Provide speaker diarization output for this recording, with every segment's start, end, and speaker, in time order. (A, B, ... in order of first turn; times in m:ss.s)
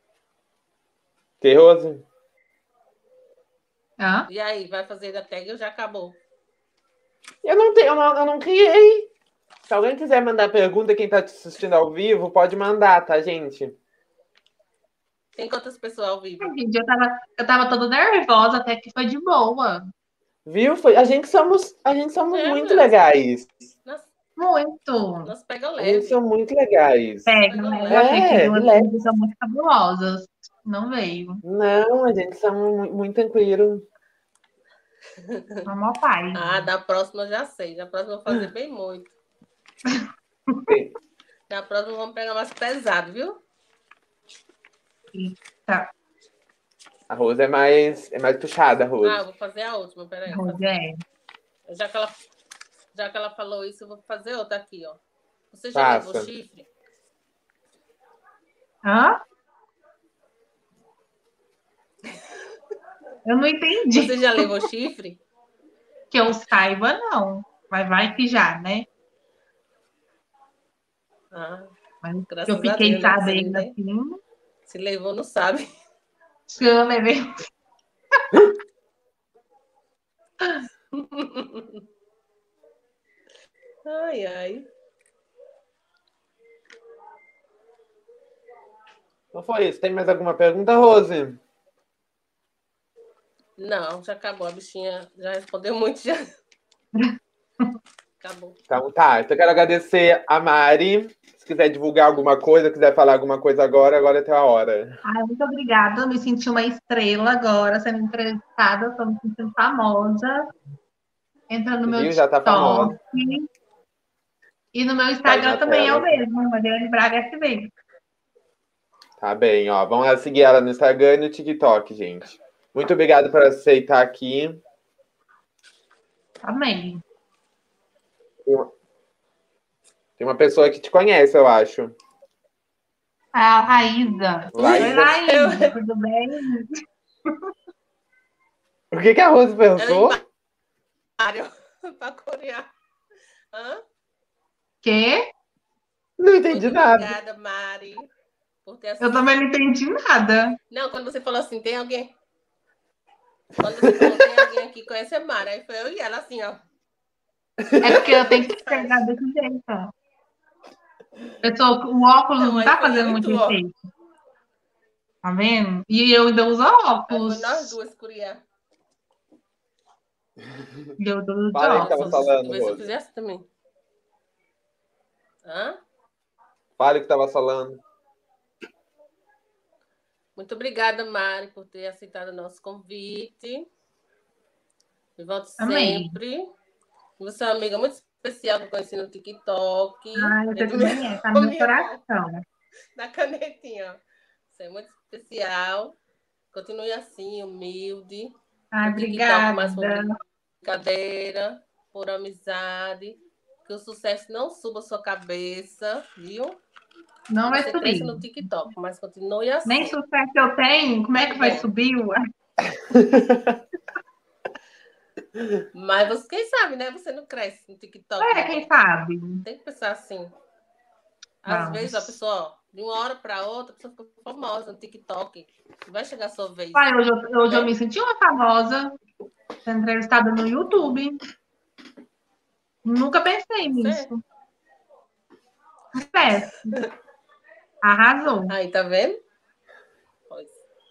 0:01.4-0:02.0 A
0:04.0-0:04.3 B
0:04.3-0:06.2 C
0:07.4-0:09.1 A
0:09.6-0:13.8 A
0:15.4-0:16.5 C
0:16.4-0:19.9 B
0:20.4-0:23.5 A
0:22.3-0:23.0 C
0:24.4-0:25.3 B
0:25.2-0:26.2 C
0:25.8-0:27.4 A
0:27.3-0:31.4 B
0:27.5-0:28.1 C
0:27.9-0:28.9 A
0:31.4-0:33.8 A
0:35.2-0:35.6 C
0:35.6-0:36.7 B
0:36.3-0:39.1 C
0:39.8-0:40.6 B
0:40.7-0:40.9 A
0:41.5-0:43.4 C
0:45.1-0:45.9 B
0:47.1-0:49.2 A
0:49.0-0:50.6 C
0:50.3-0:51.0 B
0:51.7-0:52.2 C
0:52.9-0:55.0 C
0:55.5-0:56.7 C
0:55.7-0:56.3 A
0:58.8-0:59.2 B
1:03.2-1:04.5 B
1:03.9-1:05.2 C
1:06.1-1:08.9 B
1:11.3-1:11.7 C
1:12.0-1:14.2 B
1:12.3-1:13.7 C
1:14.7-1:15.7 C
1:16.5-1:17.5 B
1:18.2-1:18.4 B
1:20.9-1:21.8 C
1:23.8-1:24.7 C
1:29.3-1:31.4 A
1:33.6-1:36.3 C
1:36.9-1:37.7 B
1:38.2-1:38.6 C
1:38.7-1:45.0 A
1:45.0-1:50.5 B
1:51.5-1:53.5 B
1:51.9-1:53.0 A
1:54.7-1:57.7 B
1:55.2-1:56.2 A
1:59.2-2:04.6 A
2:06.4-2:07.0 B
2:10.2-2:11.9 A
2:13.3-2:16.7 B
2:14.5-2:15.2 A
2:14.6-2:15.8 C
2:18.9-2:20.2 A
2:19.8-2:20.2 C
2:21.2-2:22.7 C
2:23.5-2:23.8 C
2:24.8-2:25.2 B
2:26.2-2:27.1 A
2:26.5-2:28.1 C
2:28.6-2:29.4 C
2:29.0-2:30.6 B
2:30.7-2:32.1 C
2:33.6-2:36.6 C
2:33.8-2:34.1 A
2:37.8-2:39.9 B
2:37.8-2:39.0 C
2:41.4-2:43.7 B
2:42.4-2:43.6 C
2:45.2-2:47.7 B
2:47.1-2:48.4 C
2:51.0-2:52.3 B
2:51.5-2:52.9 A
2:51.7-2:53.5 C
2:55.4-2:55.8 C
2:56.8-2:57.8 A
3:00.4-3:03.6 C
3:05.2-3:06.5 C
3:05.6-3:06.2 B
3:07.2-3:12.0 C
3:10.1-3:12.4 B
3:12.9-3:14.0 C
3:14.5-3:16.0 C
3:16.5-3:18.3 C
3:18.7-3:20.1 B
3:18.8-3:20.1 C
3:20.6-3:26.6 C
3:27.3-3:28.2 B
3:27.5-3:30.0 C
3:29.6-3:32.2 B
3:31.2-3:31.7 C
3:32.7-3:33.6 A
3:35.7-3:38.7 C
3:38.2-3:39.4 B
3:39.4-3:40.3 C
3:41.4-3:46.9 C
3:41.5-3:42.2 B
3:46.7-3:48.9 B
3:47.5-3:47.7 C
3:49.6-3:51.2 B
3:52.8-3:54.2 B
3:53.7-3:54.1 C
3:55.9-3:56.8 B
3:57.8-3:58.5 B
3:58.5-3:59.2 C
4:00.3-4:00.6 C